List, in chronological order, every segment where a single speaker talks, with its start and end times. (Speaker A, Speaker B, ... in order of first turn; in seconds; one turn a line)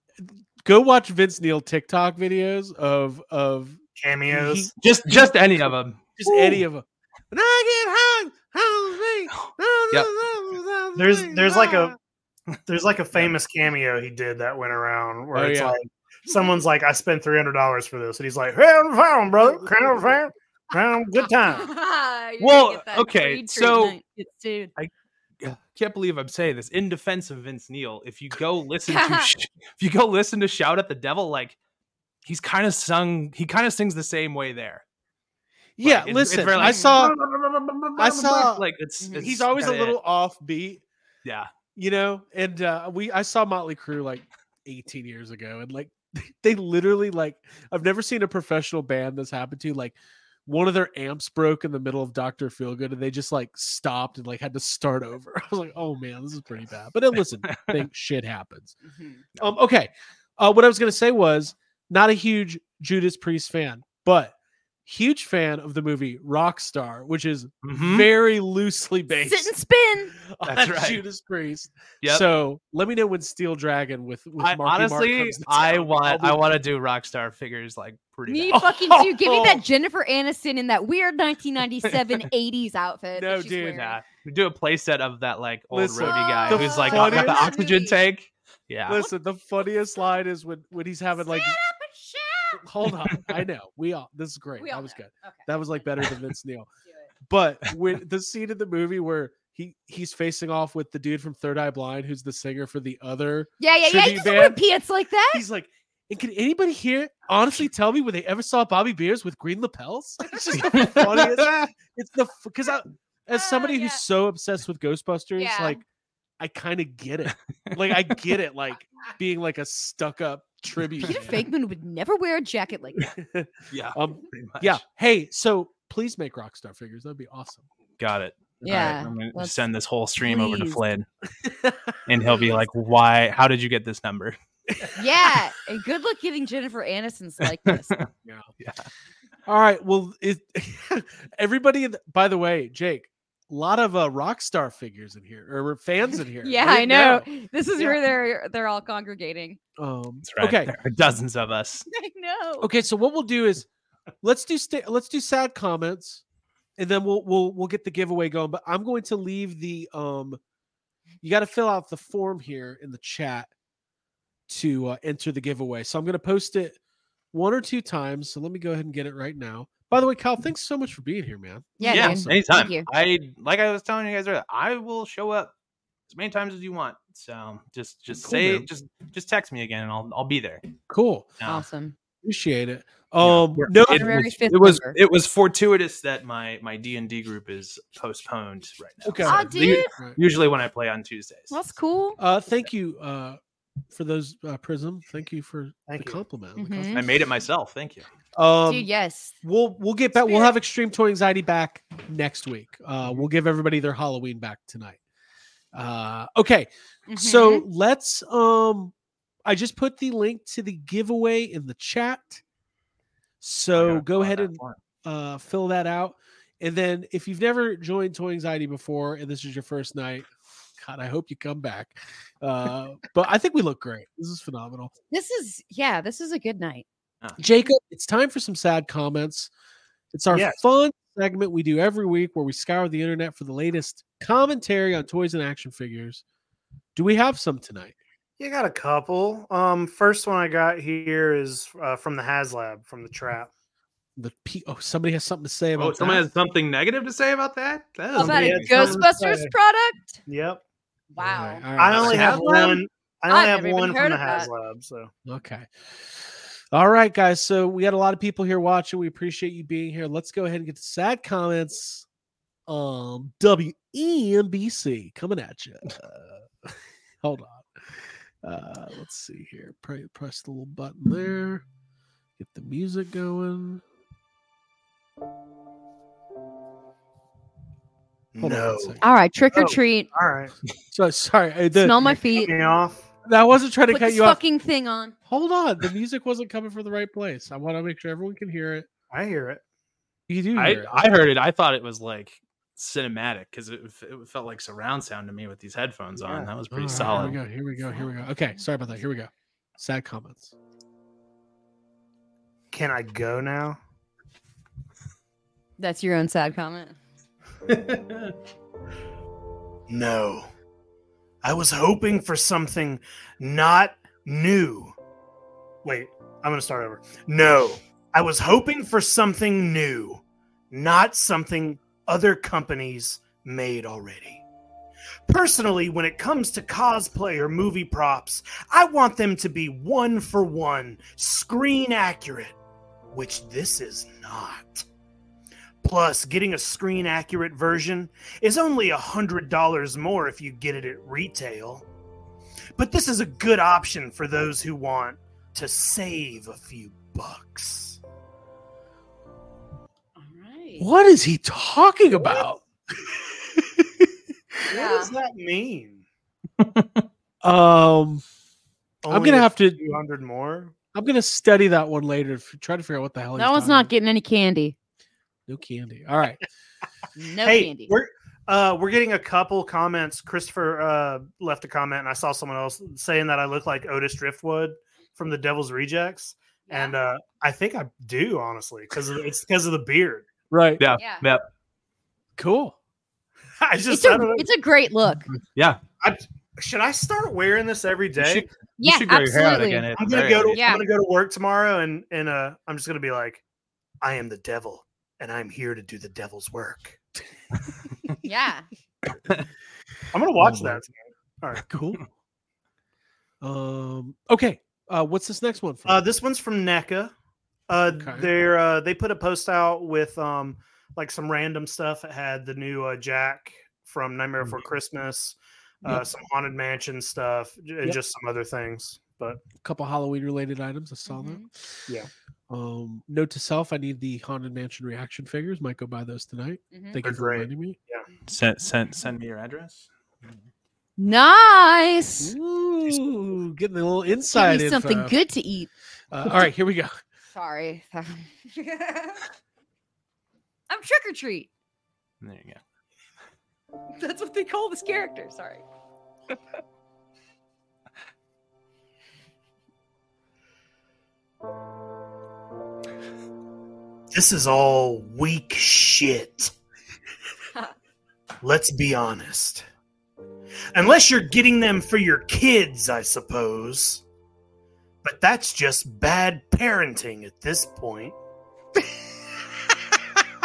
Speaker A: 0.2-5.4
Speaker B: 4.0-4.7
Speaker C: 4.8-6.6
Speaker A: 6.2-12.0
Speaker C: 9.3-10.1
Speaker B: 11.0-11.9
Speaker B: 12.7-21.7
Speaker A: 15.3-15.8
Speaker D: 21.4-24.7
Speaker C: 22.4-23.9
Speaker C: 24.8-31.6
Speaker D: 28.9-29.3
Speaker C: 32.2-34.8
Speaker A: 35.8-37.2
Speaker C: 35.8-40.0
Speaker D: 36.6-37.0
Speaker A: 38.0-38.6
Speaker A: 39.2-40.8
Speaker C: 41.2-41.5
Speaker A: 41.8-58.8
Speaker C: 57.5-57.8
Speaker D: 58.9-59.2
Speaker A: 59.4-64.3
Speaker A: 64.9-69.5
Speaker C: 67.6-68.1
Speaker D: 69.2-70.1
Speaker A: 70.2-76.5
Speaker C: 70.5-71.0
Speaker C: 72.0-72.3
Speaker C: 74.4-78.6
Speaker D: 78.3-84.0
Speaker A: 78.5-79.6
Speaker A: 83.2-83.9
Speaker C: 83.8-89.1
Speaker A: 85.7-87.5
Speaker D: 86.0-88.0
Speaker A: 88.9-91.6
Speaker D: 91.2-92.6
Speaker A: 92.5-96.7
Speaker C: 93.0-93.4
Speaker D: 94.6-95.5
Speaker A: 97.3-104.6
Speaker D: 103.6-105.4
Speaker A: 105.3-115.8
Speaker C: 110.5-111.7
Speaker D: 113.3-114.0
Speaker D: 115.4-115.8
Speaker A: 116.4-121.5
Speaker D: 121.0-123.1
Speaker A: 123.1-127.7
Speaker C: 123.7-124.8
Speaker C: 128.0-131.1
Speaker D: 128.6-129.6
Speaker D: 130.2-130.8
Speaker A: 131.4-132.0
Speaker C: 132.1-134.4
Speaker D: 134.9-137.9
Speaker C: 137.7-138.1
Speaker C: 138.6-138.9
Speaker A: 139.5-148.0
Speaker D: 146.4-149.6
Speaker A: 149.8-150.7
Speaker C: 150.2-151.9
Speaker D: 151.9-152.7
Speaker A: 152.6-153.7
Speaker A: 154.2-156.2
Speaker A: 156.8-160.4
Speaker A: 161.2-163.5
Speaker A: 164.5-166.8
Speaker A: 167.3-172.4
Speaker D: 171.8-172.9
Speaker C: 171.9-175.5
Speaker C: 176.1-180.7
Speaker A: 178.2-178.7
Speaker A: 180.9-181.3
Speaker D: 181.4-181.9
Speaker A: 182.2-184.2
Speaker C: 183.2-191.5
Speaker D: 183.8-185.0
Speaker A: 189.0-190.2
Speaker D: 189.2-189.9
Speaker D: 191.5-192.2
Speaker A: 192.2-193.4
Speaker A: 193.9-197.0
Speaker B: 195.9-196.2
Speaker D: 196.6-197.0
Speaker C: 196.9-198.1
Speaker A: 198.3-198.9
Speaker D: 198.7-199.3
Speaker A: 199.4-205.0
Speaker D: 200.2-200.5
Speaker A: 205.7-208.9
Speaker D: 207.1-207.7
Speaker A: 209.5-212.4
Speaker A: 213.4-224.9
Speaker C: 213.8-214.8
Speaker D: 225.1-226.9
Speaker A: 227.4-229.5
Speaker A: 230.1-236.2
Speaker B: 230.3-230.6
Speaker A: 236.9-237.9
Speaker B: 238.4-243.5
Speaker A: 244.2-246.3
Speaker C: 245.8-249.0
Speaker D: 248.2-250.2
Speaker B: 248.2-249.5
Speaker B: 250.3-250.6
Speaker D: 251.1-251.6
Speaker A: 251.2-252.8
Speaker B: 251.8-255.1
Speaker C: 251.9-252.5
Speaker D: 253.3-254.5
Speaker A: 255.3-262.1
Speaker A: 262.7-271.6
Speaker A: 272.4-273.8
Speaker B: 278.3-279.0
Speaker A: 278.4-279.0
Speaker D: 279.0-280.1
Speaker B: 279.5-280.5
Speaker A: 280.9-282.1
Speaker D: 281.7-282.5
Speaker B: 282.1-283.1
Speaker A: 283.2-284.4
Speaker D: 283.9-285.1
Speaker A: 285.3-288.9
Speaker B: 289.1-289.6
Speaker A: 290.3-291.0
Speaker C: 290.6-297.4
Speaker B: 296.2-296.5
Speaker A: 296.7-300.5
Speaker D: 297.0-298.6
Speaker B: 302.7-303.8
Speaker D: 305.8-307.0
Speaker C: 307.7-308.3
Speaker B: 309.9-310.5
Speaker B: 311.4-314.9
Speaker B: 315.8-324.4
Speaker B: 325.3-332.6
Speaker B: 333.1-334.9
Speaker B: 335.8-341.9
Speaker B: 342.8-348.0
Speaker D: 350.2-350.9
Speaker A: 350.8-352.6
Speaker B: 352.1-352.4
Speaker A: 353.4-354.1
Speaker B: 354.7-356.0
Speaker D: 354.7-355.1
Speaker C: 356.6-357.1
Speaker A: 357.4-358.2
Speaker B: 359.0-360.8
Speaker A: 359.1-359.8
Speaker A: 360.9-363.9
Speaker D: 363.4-364.8
Speaker A: 365.5-366.4
Speaker D: 367.1-367.9
Speaker B: 367.4-380.3
Speaker D: 376.7-377.0
Speaker A: 380.5-380.8
Speaker C: 380.8-381.5
Speaker D: 381.0-381.2
Speaker A: 382.4-382.8
Speaker B: 383.6-384.5
Speaker D: 383.9-385.3
Speaker C: 385.5-385.8
Speaker B: 386.0-388.5
Speaker C: 388.2-390.8
Speaker D: 388.8-389.9
Speaker B: 390.0-393.4
Speaker D: 390.5-390.9
Speaker B: 394.0-397.0
Speaker D: 398.2-398.7
Speaker B: 400.1-401.6
Speaker A: 400.4-400.8
Speaker A: 401.6-402.1
Speaker A: 403.4-406.0
Speaker B: 405.9-407.1
Speaker B: 407.7-419.4
Speaker A: 407.9-408.3
Speaker A: 419.6-421.8
Speaker D: 421.1-421.5
Speaker A: 422.5-427.8
Speaker D: 426.7-427.0
Speaker B: 427.0-428.1
Speaker C: 428.3-429.9
Speaker D: 431.0-432.4
Speaker A: 432.2-435.1
Speaker D: 434.3-435.7
Speaker A: 436.1-436.9
Speaker D: 437.3-439.2
Speaker D: 440.7-441.5
Speaker C: 442.2-442.6
Speaker D: 444.0-445.6
Speaker B: 454.1-456.5
Speaker B: 458.4-459.6
Speaker B: 460.7-464.0
Speaker B: 465.0-468.2